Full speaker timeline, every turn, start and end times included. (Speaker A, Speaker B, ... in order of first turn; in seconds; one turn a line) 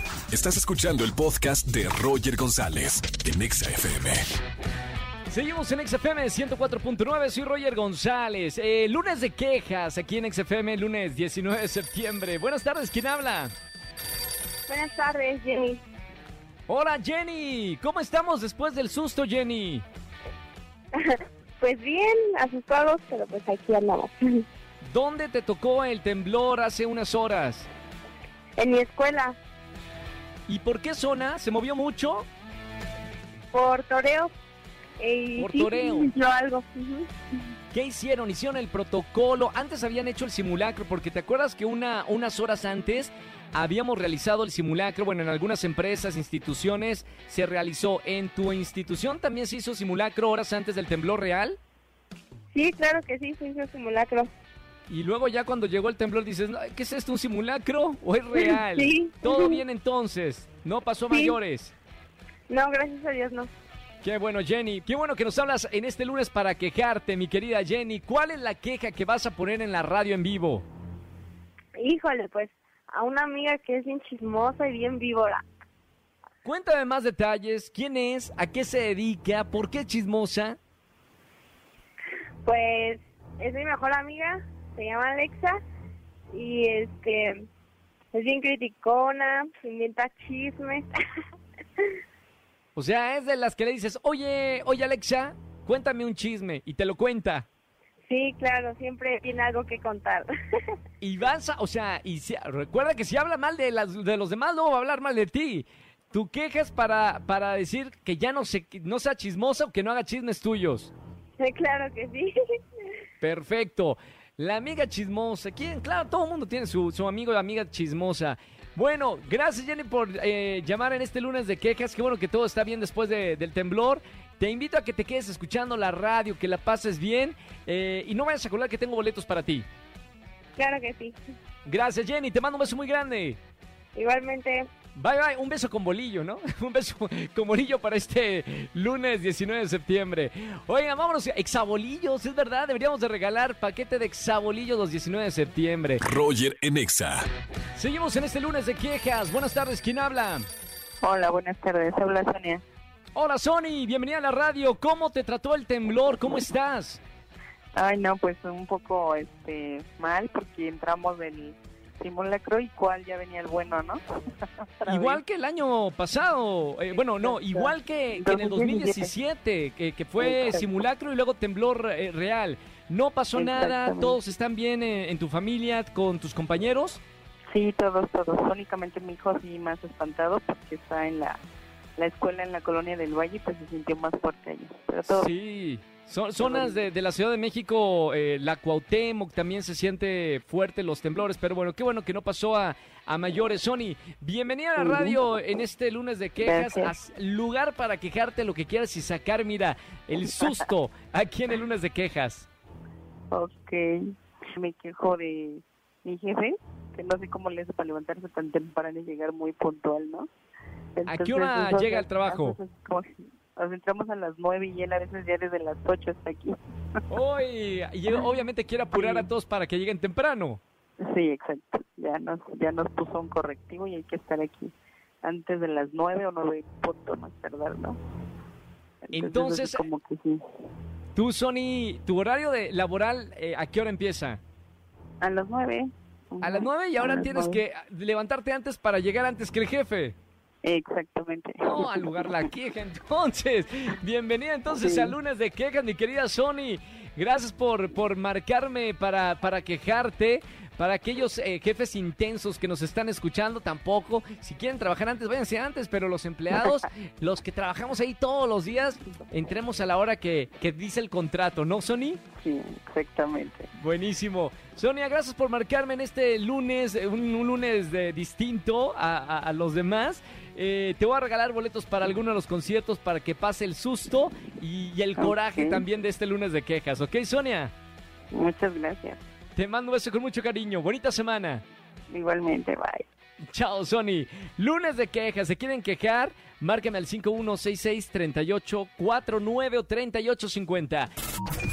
Speaker A: 0.3-4.2
Speaker B: 5.3-13.5
Speaker C: 14.7-15.8
Speaker B: 16.7-19.8
Speaker C: 20.9-24.4
Speaker B: 24.8-27.7
Speaker C: 28.6-29.4
Speaker B: 30.5-32.2
Speaker C: 33.5-34.3
Speaker C: 35.0-37.1
Speaker B: 35.4-36.1
Speaker B: 37.7-51.6
Speaker C: 52.5-54.3
Speaker B: 54.9-61.7
Speaker C: 58.3-59.6
Speaker C: 61.1-61.4
Speaker C: 62.5-63.5
Speaker B: 64.0-70.7
Speaker C: 71.7-75.4
Speaker B: 76.4-80.6
Speaker C: 82.4-85.6
Speaker C: 86.3-87.4
Speaker C: 88.1-90.9
Speaker B: 92.7-97.5
Speaker C: 98.1-100.3
Speaker B: 101.0-110.9
Speaker C: 111.4-112.3
Speaker B: 113.2-129.7
Speaker C: 130.6-131.2
Speaker B: 131.6-133.4
Speaker C: 133.9-134.7
Speaker B: 134.9-146.0
Speaker A: 146.0-147.2
Speaker B: 147.7-150.5
Speaker D: 151.0-152.6
Speaker B: 153.1-157.0
Speaker D: 157.7-164.0
Speaker D: 164.6-165.2
Speaker B: 164.9-177.0
Speaker D: 167.0-169.1
Speaker D: 170.2-170.7
Speaker D: 173.3-174.2
Speaker D: 177.5-181.4
Speaker D: 182.0-185.3
Speaker B: 185.1-202.5
Speaker D: 186.4-186.8
Speaker D: 194.8-195.2
Speaker D: 196.4-196.9
Speaker D: 203.3-210.3
Speaker D: 210.9-216.6
Speaker B: 211.1-212.6
Speaker B: 217.1-220.6
Speaker D: 218.9-219.3
Speaker D: 221.0-228.0
Speaker D: 229.0-230.4
Speaker B: 229.1-229.8
Speaker B: 231.1-234.4
Speaker D: 235.2-237.6
Speaker B: 236.4-240.2
Speaker D: 240.6-242.4
Speaker B: 241.7-262.2
Speaker D: 244.8-245.2
Speaker D: 262.4-263.7
Speaker B: 263.8-277.7
Speaker D: 275.2-275.9
Speaker D: 278.3-279.2
Speaker B: 279.6-281.6
Speaker D: 282.1-283.1
Speaker B: 283.5-291.1